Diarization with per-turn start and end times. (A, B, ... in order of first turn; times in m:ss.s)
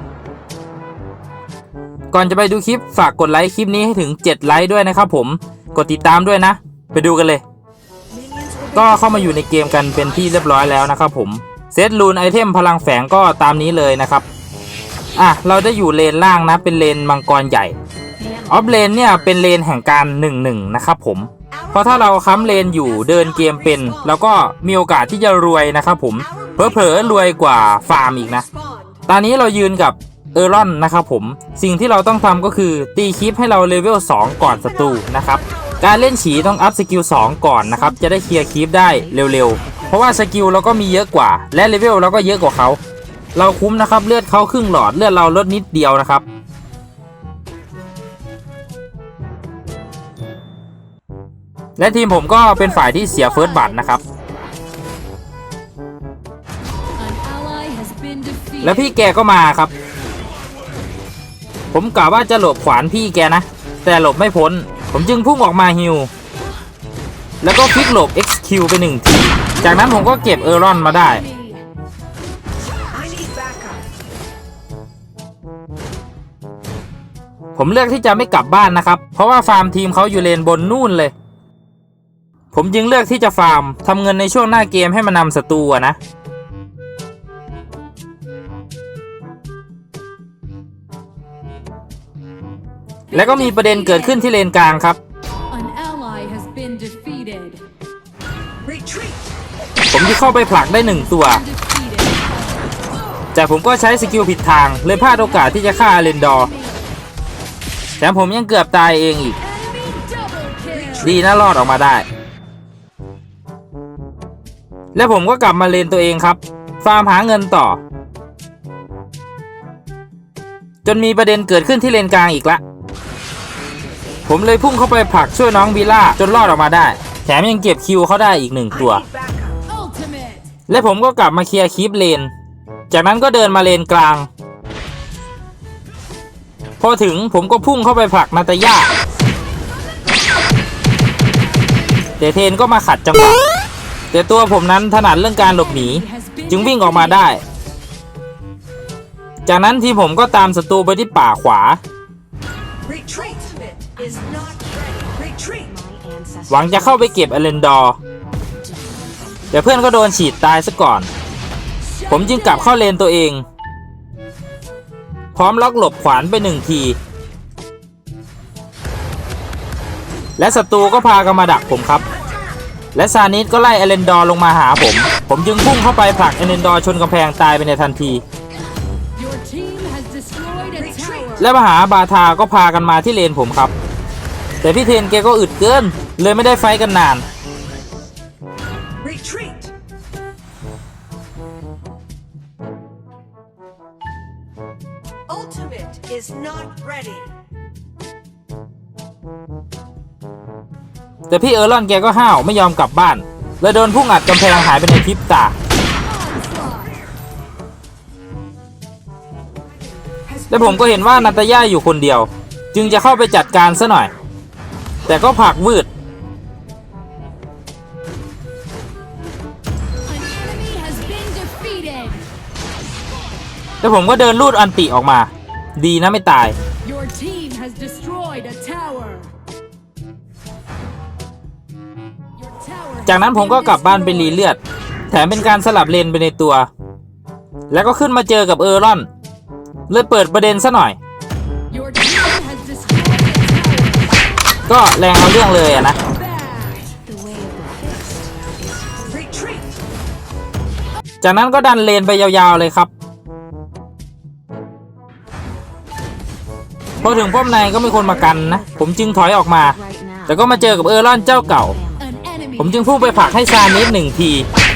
0:02.1-0:07.4 A
0:08.2-0:08.7 B
0:08.7-0:14.2 A
0:15.2-0:17.8 A
0:18.5-0:28.5 A
0:28.4-0:29.0 B
0:29.1-0:42.8 A
0:43.3-0:46.2 A
0:51.8-0:54.0 A
0:52.5-0:53.8 C
0:57.0-0:58.9 C
0:58.6-0:59.7 A
1:01.7-1:06.1 A
1:07.4-1:11.2 A
1:09.6-1:11.6 C
1:12.9-1:13.8 B
1:17.6-1:21.1 A
1:22.5-1:26.0 A
1:33.1-1:34.2 C
1:33.1-1:35.0 A
1:35.5-1:37.6 C
1:38.6-1:39.3 B
1:39.9-1:41.4 A
1:40.3-1:42.6 C
1:43.3-1:46.5 A
1:44.9-1:46.8 C
1:48.0-1:49.4 A
1:49.4-1:51.1 C
1:51.0-1:52.0 A
1:54.9-1:57.8 A
2:00.8-2:02.6 A
2:04.2-2:09.1 A
2:09.1-2:09.6 B
2:09.6-2:10.5 C
2:10.7-2:12.3 A
2:12.9-2:14.3 A
2:16.8-2:18.9 A
2:22.2-2:23.4 A
2:24.1-2:27.4 A
2:25.4-2:27.3 C
2:29.4-2:31.8 A
2:32.9-2:36.6 B
2:36.5-2:38.0 A
2:39.5-2:41.1 A
2:41.8-2:42.7 C
2:42.1-2:43.4 A
2:45.3-2:47.0 A
2:50.4-2:52.0 A
2:52.9-2:58.2 A
2:59.1-3:01.5 C
3:01.4-3:03.7 A
3:04.6-3:07.2 A
3:09.0-3:09.7 B
3:15.3-3:17.3 B
3:21.3-3:25.5 A
3:26.0-3:26.9 C
3:30.5-3:34.1 A
3:35.0-3:35.9 A
3:40.1-3:42.2 C
3:43.8-3:46.6 A
3:46.8-3:49.3 C
3:52.4-3:54.6 C
3:53.0-3:54.6 A
3:55.1-3:56.7 A
3:57.7-3:59.1 A
3:59.9-4:01.0 A
4:01.7-4:04.1 C
4:04.7-4:06.0 A
4:06.1-4:07.0 C
4:07.0-4:08.2 B
4:08.9-4:09.6 B
4:11.2-4:12.9 A
4:17.0-4:21.8 A
4:19.8-4:20.3 B
4:22.0-4:23.8 C
4:22.6-4:24.5 A